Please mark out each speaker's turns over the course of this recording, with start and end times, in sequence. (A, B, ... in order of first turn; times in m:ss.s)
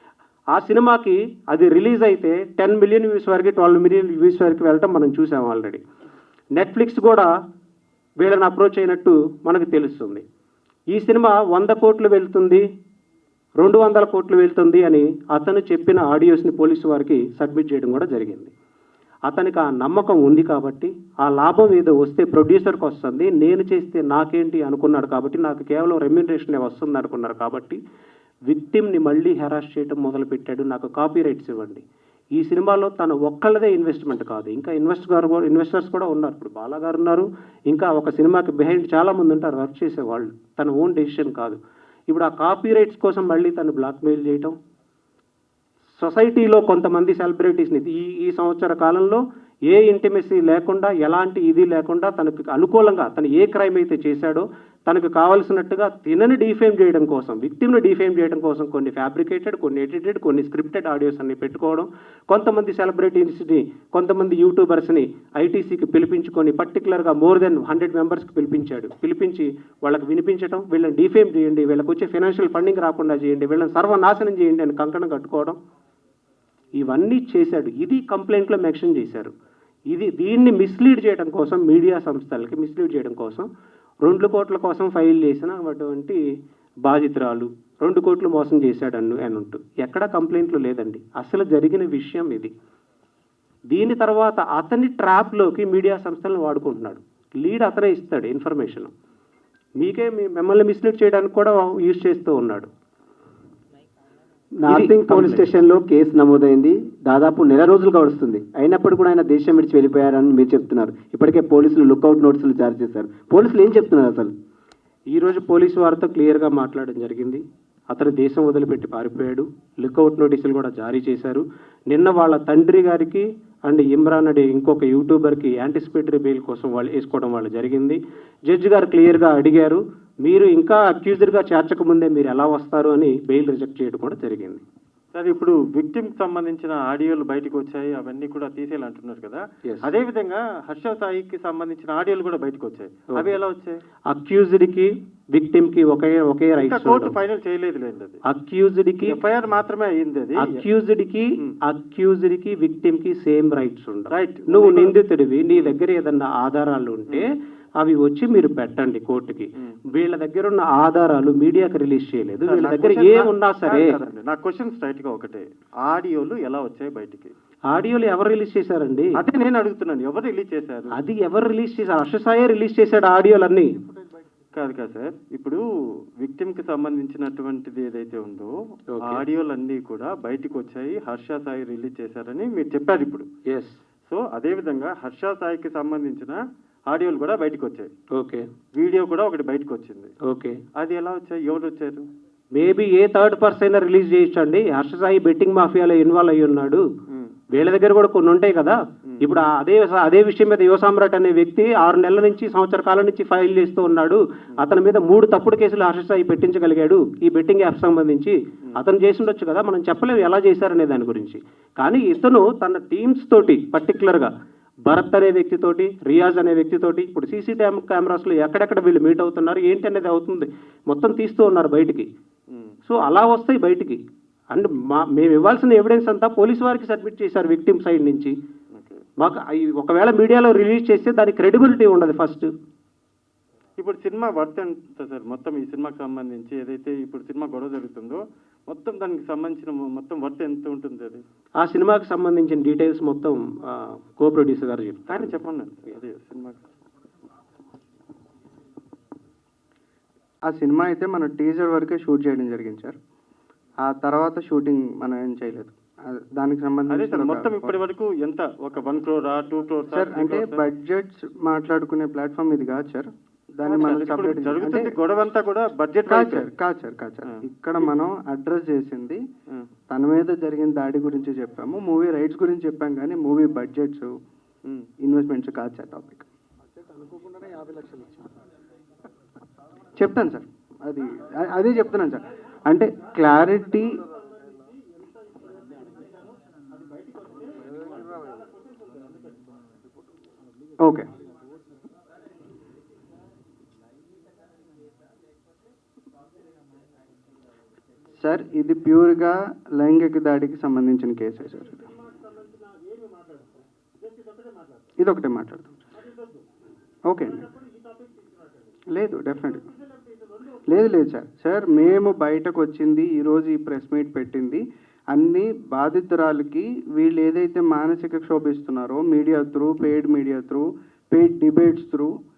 0:00.5-0:05.8 A
0:06.6-0:07.3 A
0:08.2-0:10.2 A
0:10.9-0:12.6 A
0:13.6-0:18.5 A
0:19.3-0:27.8 A
0:28.5-0:31.8 A
0:32.4-0:44.6 A
0:46.0-1:15.6 A
1:16.8-1:19.3 A
1:19.9-1:23.5 A
1:24.0-1:26.2 A
1:26.8-1:32.5 A
1:33.7-1:38.9 A
1:39.8-1:42.7 A
1:44.6-1:54.3 B
1:44.6-1:45.5 A
1:55.1-2:14.6 A
2:15.1-2:23.8 C
2:24.1-2:27.1 A
2:26.6-2:28.2 C
2:28.2-2:29.2 A
2:29.0-2:30.6 C
2:30.4-2:43.9 A
2:34.1-2:35.0 C
2:42.5-2:47.3 C
2:47.7-2:49.1 A
2:49.1-2:50.9 C
2:50.9-2:53.7 A
2:54.6-2:55.6 C
2:56.2-2:58.5 C
2:58.9-2:59.2 A
2:59.0-3:03.3 C
3:03.5-3:03.8 A
3:04.1-3:06.4 C
3:06.9-3:07.9 C
3:08.1-3:08.4 A
3:08.8-3:10.1 C
3:10.2-3:10.6 A
3:10.8-3:12.0 C
3:12.5-3:16.8 A
3:17.5-3:34.3 A
3:34.9-3:42.1 A
3:42.9-3:44.0 A
3:44.5-3:48.3 A
3:48.7-3:49.0 C
3:49.2-3:52.5 A
3:53.8-4:01.2 C
4:01.6-4:05.3 A
4:05.1-4:06.6 C
4:10.5-4:12.9 D
4:13.8-4:17.8 D
4:16.9-4:20.6 C
4:19.9-4:24.9 D
4:23.6-4:26.5 C
4:26.1-4:29.2 D
4:27.3-4:27.8 C
4:29.9-4:34.1 D
4:35.0-4:36.2 D
4:36.9-4:38.2 B
4:40.0-4:44.0 D
4:44.0-4:49.5 C
4:50.8-4:51.1 D
4:58.2-5:01.8 D
5:01.6-5:04.9 C
5:05.0-5:05.8 D
5:06.0-5:06.4 C
5:07.1-5:07.4 D
5:07.4-5:08.5 C
5:08.9-5:09.6 D
5:09.5-5:10.6 C
5:10.7-5:22.1 D